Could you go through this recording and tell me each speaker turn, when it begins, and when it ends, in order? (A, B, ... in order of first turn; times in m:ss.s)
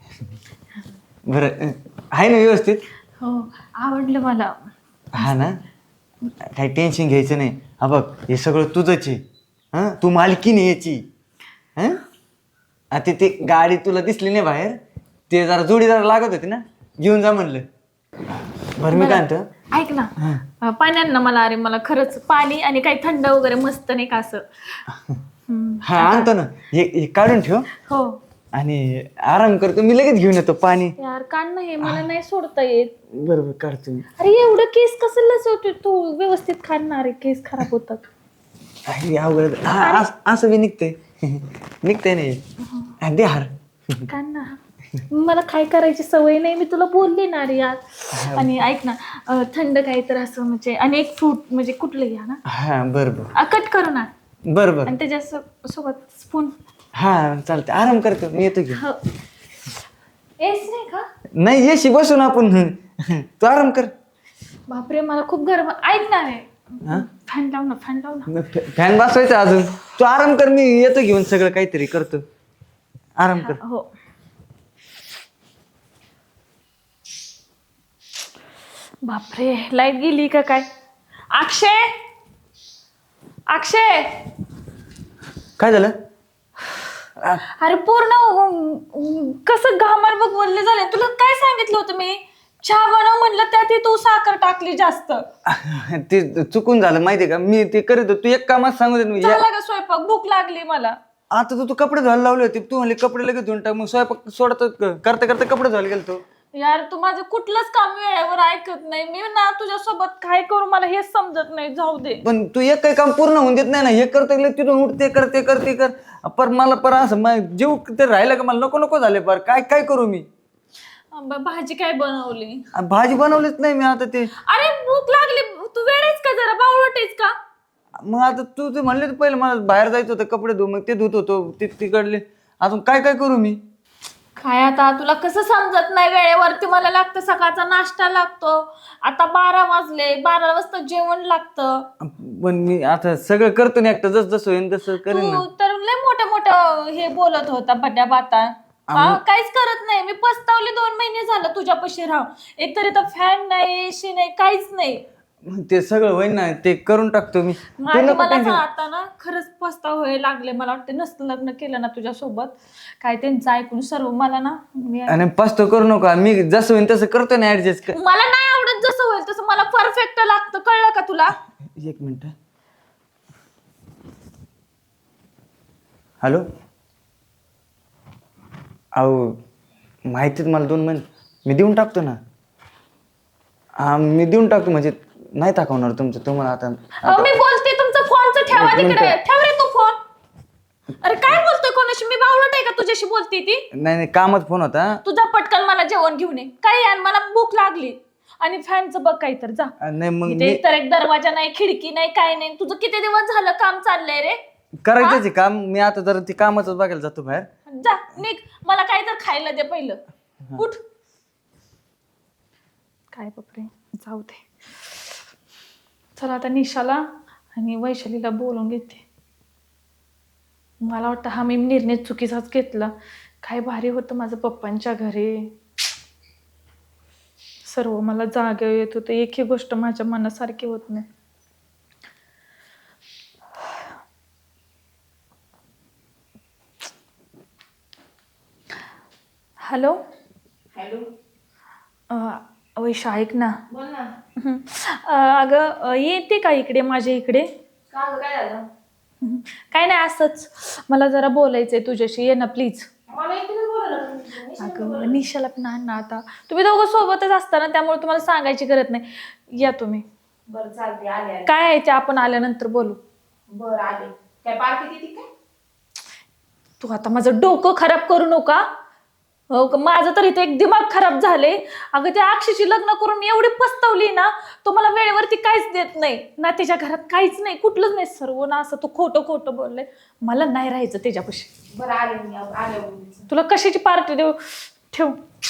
0:01.3-0:02.8 A
0:03.2-0:04.5 B
0:05.2-0:05.6 A
0:06.5-0:09.2 A
0:09.7-0:11.0 A
0:11.8-0:12.0 A
0:12.9-0:17.6 A
0:18.8-0:19.4 A
0:18.9-0:24.8 B
0:24.9-0:25.2 A
0:25.5-0:26.3 B
0:25.8-0:27.7 A
0:27.8-0:28.2 B
0:28.5-0:30.9 A
0:31.0-0:32.9 B
0:33.1-0:34.0 A
0:34.2-0:38.0 B
0:38.9-0:42.4 A
0:39.7-0:40.1 B
0:42.6-0:42.9 B
0:43.0-0:44.0 A
0:44.1-0:44.6 B
0:45.1-0:52.4 B
0:48.1-0:48.5 A
0:52.5-0:53.3 A
0:53.3-0:54.1 B
0:54.5-0:55.0 A
0:54.8-0:56.5 B
0:57.0-0:58.8 A
0:58.7-0:59.0 B
1:00.4-1:01.1 B
1:01.4-1:03.9 A
1:04.7-1:08.3 B
1:08.3-1:12.2 A
1:13.2-1:13.6 A
1:13.4-1:13.9 B
1:19.0-1:20.7 B
1:21.3-1:21.9 B
1:23.5-1:24.2 B
1:25.6-1:25.9 A
1:27.6-1:35.2 B
1:35.5-1:39.4 A
1:39.2-1:41.0 B
1:41.3-1:46.2 A
1:46.6-1:52.2 B
1:52.2-2:00.2 A
2:01.1-2:02.6 B
2:02.7-2:04.3 A
2:04.4-2:07.3 B
2:08.0-2:13.6 A
2:14.4-2:21.9 B
2:22.0-2:25.4 A
2:25.1-2:35.0 B
2:28.9-2:29.2 A
2:35.4-2:38.6 A
2:37.8-2:45.2 B
2:45.1-2:48.0 A
2:47.9-2:51.4 B
2:51.7-2:52.3 A
2:58.9-2:59.4 A
3:00.1-3:02.2 A
3:03.8-3:07.4 A
3:07.0-3:10.0 B
3:08.5-3:09.2 A
3:11.0-3:13.6 B
3:13.7-3:15.0 A
3:15.0-3:19.7 B
3:19.8-3:20.6 A
3:20.2-3:24.4 B
3:24.8-3:27.5 A
3:27.7-3:30.0 B
3:33.1-3:35.1 B
3:36.2-3:39.0 B
3:40.8-3:45.5 B
3:47.6-3:51.0 B
3:59.6-4:00.0 B
4:00.7-4:01.1 C
4:02.1-4:03.5 B
4:03.7-4:04.1 C
4:04.4-4:07.5 B
4:07.9-4:08.7 C
4:09.2-4:12.9 B
4:13.1-4:15.2 C
4:14.6-4:20.0 B
4:20.5-4:21.5 C
4:21.4-4:23.0 B
4:23.5-4:25.3 C
4:26.8-4:28.7 B
4:29.5-4:41.5 B
4:41.7-4:43.3 C
4:43.3-4:45.2 B